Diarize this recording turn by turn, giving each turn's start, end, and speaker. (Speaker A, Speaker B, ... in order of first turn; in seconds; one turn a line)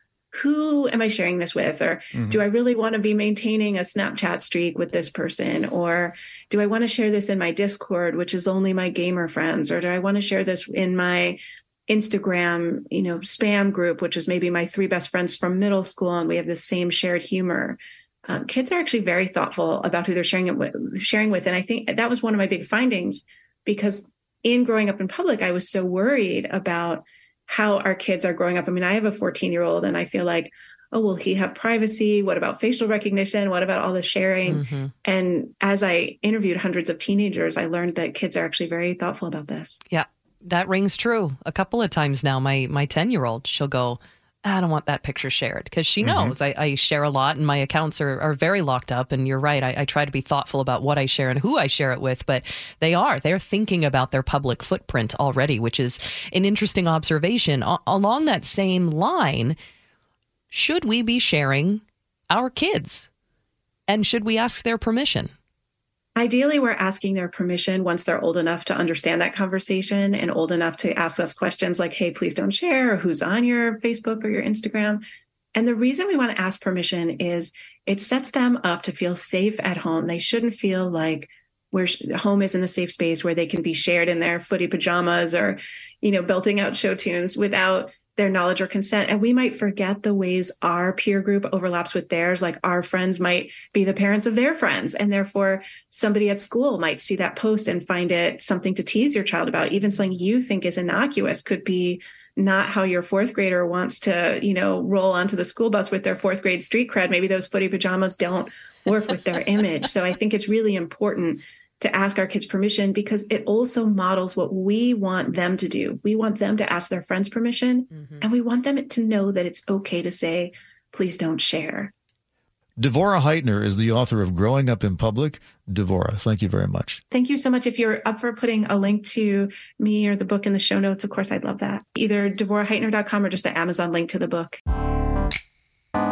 Speaker A: 0.3-39.8
Speaker B: 34.5-34.9
Speaker B: 39.9-59.5
Speaker C: 46.0-46.3
Speaker B: 60.5-63.1
Speaker B: 63.9-65.3
Speaker A: 66.2-75.0
Speaker A: 75.5-121.9
Speaker C: 122.8-127.0
Speaker A: 127.1-134.6